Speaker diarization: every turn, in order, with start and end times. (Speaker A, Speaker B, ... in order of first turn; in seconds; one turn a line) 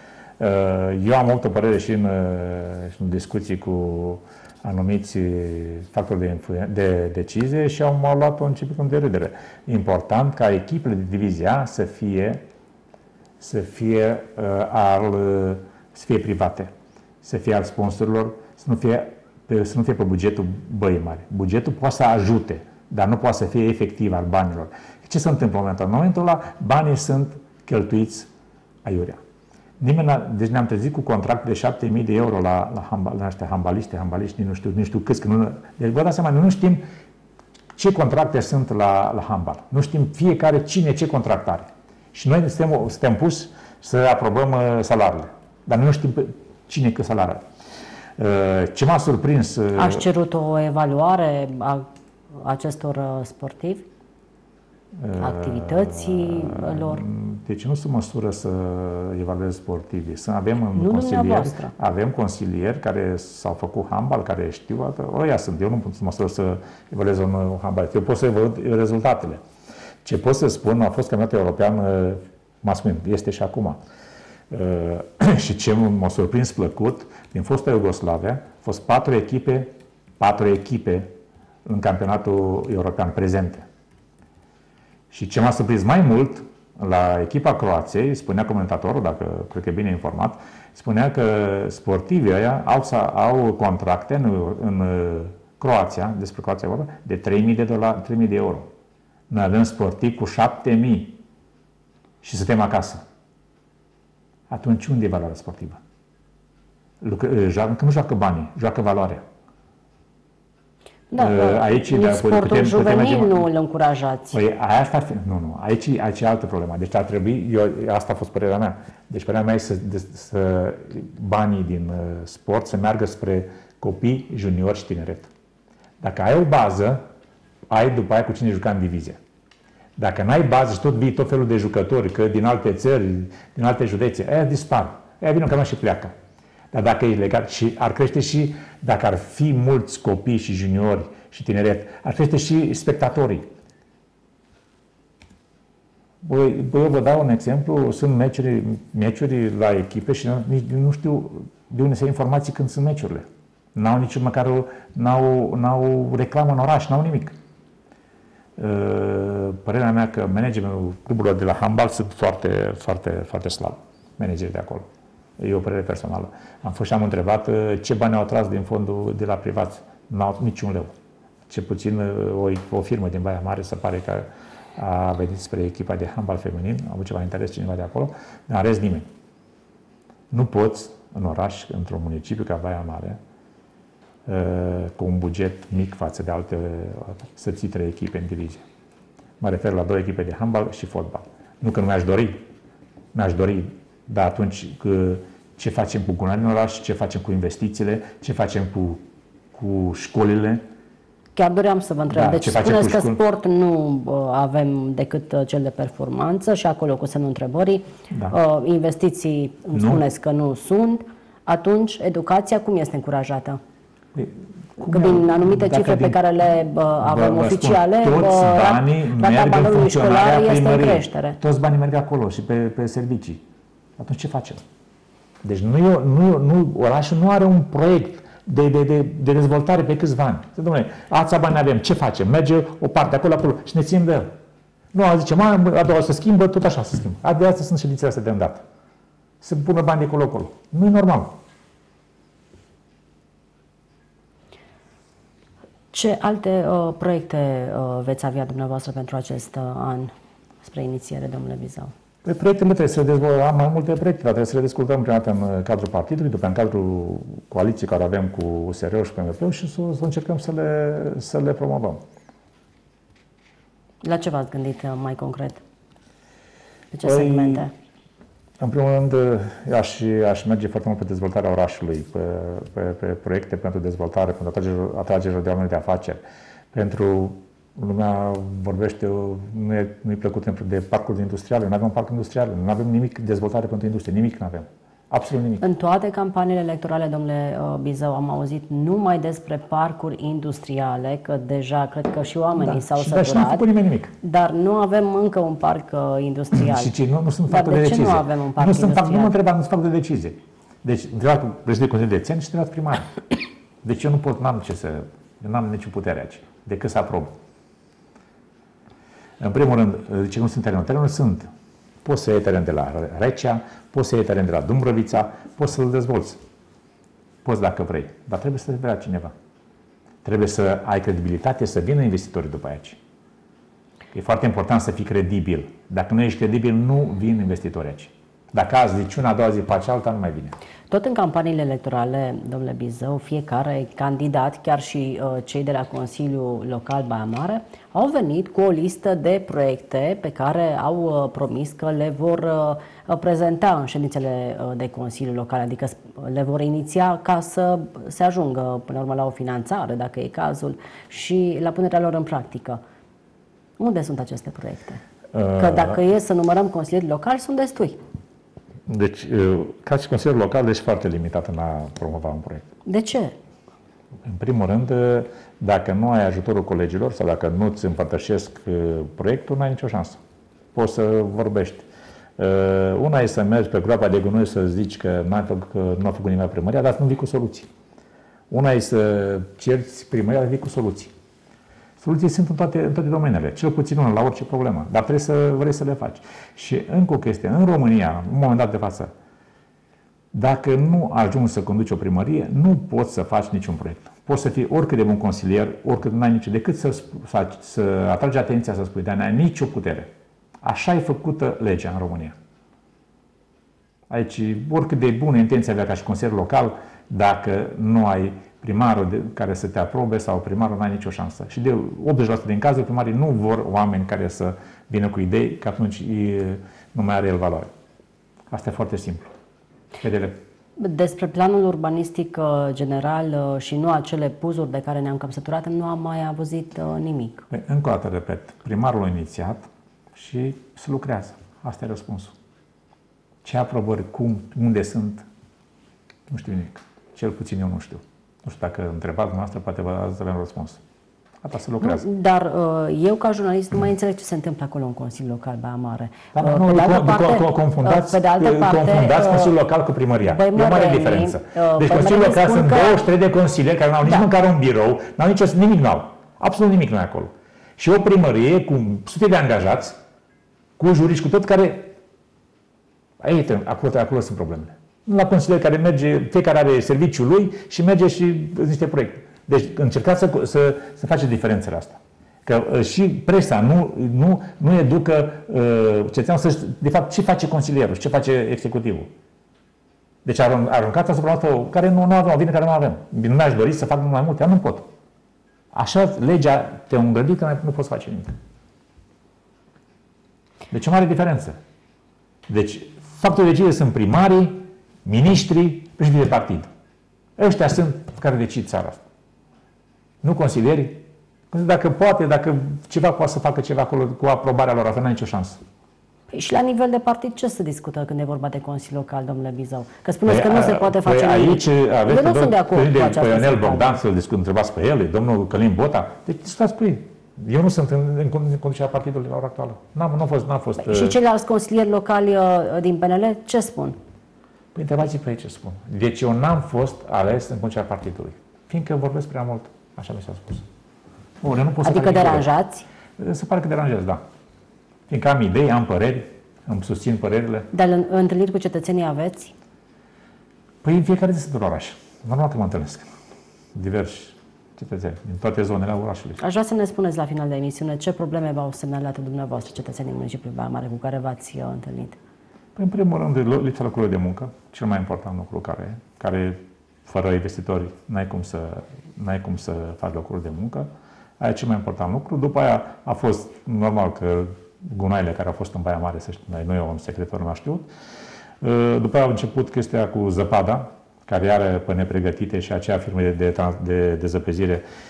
Speaker A: 0.4-12.4
Speaker A: 13.4-28.3
Speaker A: 28.8-29.2
Speaker A: 29.8-36.8
Speaker A: 37.8-47.4
Speaker A: 48.2-50.1
Speaker B: 49.8-53.9
Speaker A: 55.0-69.4
Speaker B: 55.2-57.0
Speaker B: 60.7-61.7
Speaker A: 70.0-73.8
Speaker A: 74.5-81.1
Speaker A: 81.7-83.7
Speaker A: 85.1-98.7
Speaker A: 99.3-101.2
Speaker A: 102.2-103.0
Speaker A: 104.5-105.8
Speaker A: 107.0-109.2
Speaker B: 111.1-114.4
Speaker A: 111.2-113.5
Speaker A: 114.3-125.3
Speaker A: 126.0-127.0
Speaker A: 127.7-129.2
Speaker A: 130.0-136.1
Speaker A: 136.7-143.5
Speaker A: 146.2-157.4
Speaker A: 158.6-164.9
Speaker A: 165.4-170.9
Speaker A: 171.5-179.1
Speaker A: 180.3-183.2
Speaker A: 184.3-188.6
Speaker A: 189.4-192.4
Speaker A: 193.1-199.0
Speaker A: 199.5-200.6
Speaker B: 201.4-213.6
Speaker A: 202.1-203.2
Speaker A: 208.1-208.4
Speaker A: 209.7-210.0
Speaker A: 214.1-216.2
Speaker B: 214.8-221.4
Speaker A: 217.0-223.4
Speaker A: 224.0-224.6
Speaker A: 225.4-234.3
Speaker A: 234.9-238.6
Speaker A: 239.4-241.3
Speaker B: 245.9-250.1
Speaker B: 250.6-251.9
Speaker A: 252.2-262.0
Speaker B: 264.0-265.6
Speaker B: 266.9-267.7
Speaker A: 267.0-267.7
Speaker A: 268.6-276.2
Speaker A: 276.7-285.6
Speaker B: 285.6-293.7
Speaker A: 292.6-294.1
Speaker B: 294.2-296.9
Speaker A: 296.5-303.2
Speaker B: 297.5-299.3
Speaker A: 303.8-307.3
Speaker A: 309.4-311.5
Speaker A: 312.0-316.4
Speaker A: 317.4-319.3
Speaker A: 320.2-323.0
Speaker A: 324.1-330.6
Speaker B: 330.9-352.8
Speaker B: 353.8-355.0
Speaker A: 355.3-356.0
Speaker B: 355.6-358.0
Speaker A: 358.9-362.7
Speaker B: 362.9-363.4
Speaker A: 364.2-370.2
Speaker A: 370.7-371.9
Speaker A: 372.4-377.7
Speaker A: 378.5-381.1
Speaker A: 382.0-389.1
Speaker A: 390.3-402.4
Speaker A: 404.1-417.7
Speaker A: 418.5-419.3
Speaker A: 420.0-420.4
Speaker B: 420.8-427.5
Speaker A: 427.5-432.4
Speaker A: 433.4-435.3
Speaker A: 436.3-440.8
Speaker A: 441.4-442.1
Speaker B: 441.8-449.5
Speaker A: 446.3-460.0
Speaker B: 450.2-453.0
Speaker A: 460.8-461.9
Speaker A: 463.2-479.1
Speaker A: 480.2-484.9
Speaker A: 485.7-488.3
Speaker A: 490.7-491.6
Speaker A: 492.5-496.7
Speaker A: 497.4-499.0
Speaker A: 500.2-505.6
Speaker B: 506.3-514.0
Speaker A: 510.2-521.2
Speaker B: 520.8-524.0
Speaker A: 524.8-530.6
Speaker A: 531.4-532.5
Speaker B: 531.8-532.9
Speaker A: 533.2-534.2
Speaker A: 535.1-537.7
Speaker B: 537.7-539.5
Speaker A: 540.8-543.1
Speaker A: 543.7-546.4
Speaker B: 546.4-552.2
Speaker A: 552.8-560.9
Speaker A: 561.4-567.9
Speaker A: 568.6-574.8